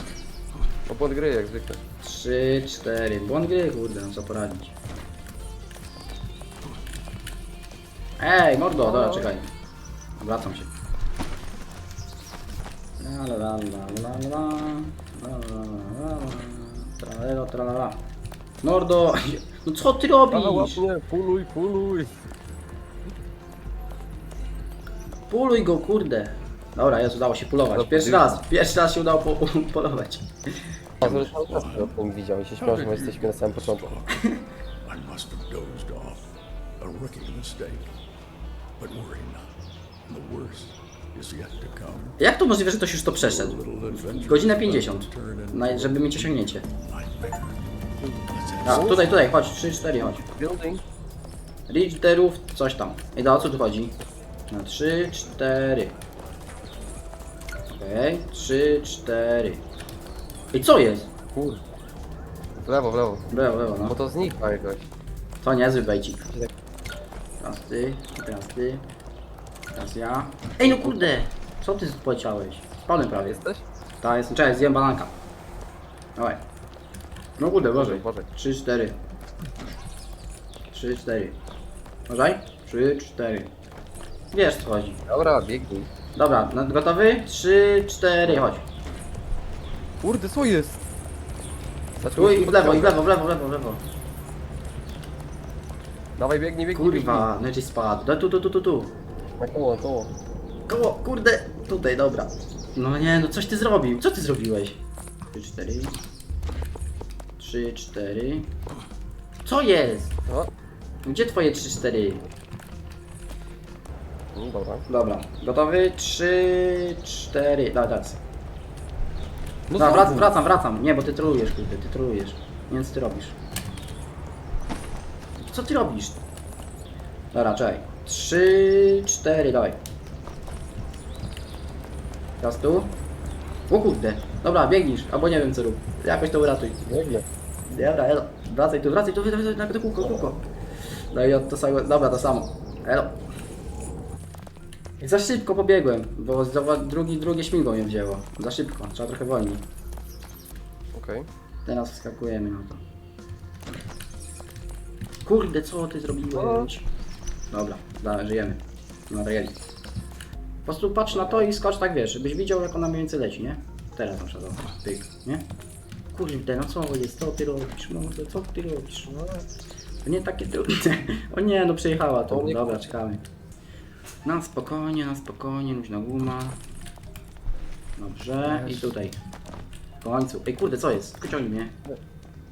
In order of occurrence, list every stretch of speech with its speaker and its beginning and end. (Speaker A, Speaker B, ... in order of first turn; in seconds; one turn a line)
Speaker A: 0.9-1.8
Speaker B: 2.0-4.7
Speaker B: 8.2-9.5
Speaker A: 8.8-9.3
Speaker B: 10.2-10.7
Speaker B: 13.0-18.0
Speaker B: 18.6-20.8
Speaker A: 20.3-22.1
Speaker B: 25.3-30.3
Speaker A: 27.7-28.4
Speaker A: 31.0-33.9
Speaker C: 31.0-31.9
Speaker C: 32.6-34.3
Speaker C: 34.8-37.9
Speaker C: 38.8-39.5
Speaker C: 40.1-42.2
Speaker B: 42.2-46.6
Speaker C: 43.2-47.7
Speaker A: 48.0-49.1
Speaker C: 48.3-49.2
Speaker B: 48.6-50.2
Speaker A: 50.0-50.8
Speaker B: 51.7-54.0
Speaker B: 54.5-55.9
Speaker B: 57.7-59.6
Speaker B: 60.5-61.1
Speaker A: 61.3-61.6
Speaker A: 62.5-63.3
Speaker B: 63.3-63.9
Speaker A: 63.9-64.9
Speaker B: 65.4-66.3
Speaker B: 67.4-68.8
Speaker B: 69.7-73.4
Speaker A: 70.6-71.1
Speaker A: 73.0-73.6
Speaker B: 74.0-75.1
Speaker B: 76.2-76.4
Speaker B: 77.4-79.0
Speaker A: 77.7-78.3
Speaker B: 80.7-81.4
Speaker B: 82.1-83.5
Speaker B: 84.3-85.0
Speaker A: 85.1-85.9
Speaker B: 86.2-88.6
Speaker A: 88.2-88.5
Speaker A: 90.0-90.8
Speaker A: 92.0-93.0
Speaker B: 92.1-93.8
Speaker A: 96.2-97.3
Speaker B: 96.7-98.9
Speaker A: 99.4-100.1
Speaker B: 100.7-104.8
Speaker B: 105.3-106.0
Speaker B: 107.4-108.5
Speaker B: 109.4-110.2
Speaker B: 111.0-112.2
Speaker A: 114.3-114.8
Speaker B: 114.9-118.2
Speaker A: 119.7-120.3
Speaker B: 119.8-123.4
Speaker B: 125.4-126.2
Speaker B: 127.3-129.8
Speaker B: 132.4-133.0
Speaker B: 133.7-137.1
Speaker A: 136.8-137.2
Speaker B: 137.7-140.4
Speaker B: 141.1-143.2
Speaker B: 145.0-149.6
Speaker A: 150.9-151.3
Speaker B: 151.7-152.8
Speaker B: 155.2-156.9
Speaker A: 156.3-156.7
Speaker B: 157.5-159.6
Speaker B: 160.7-165.4
Speaker A: 161.1-161.5
Speaker B: 166.1-169.1
Speaker A: 169.1-169.4
Speaker B: 170.0-173.2
Speaker A: 172.3-172.9
Speaker B: 174.2-176.6
Speaker B: 178.0-179.2
Speaker A: 178.4-178.9
Speaker B: 180.0-181.8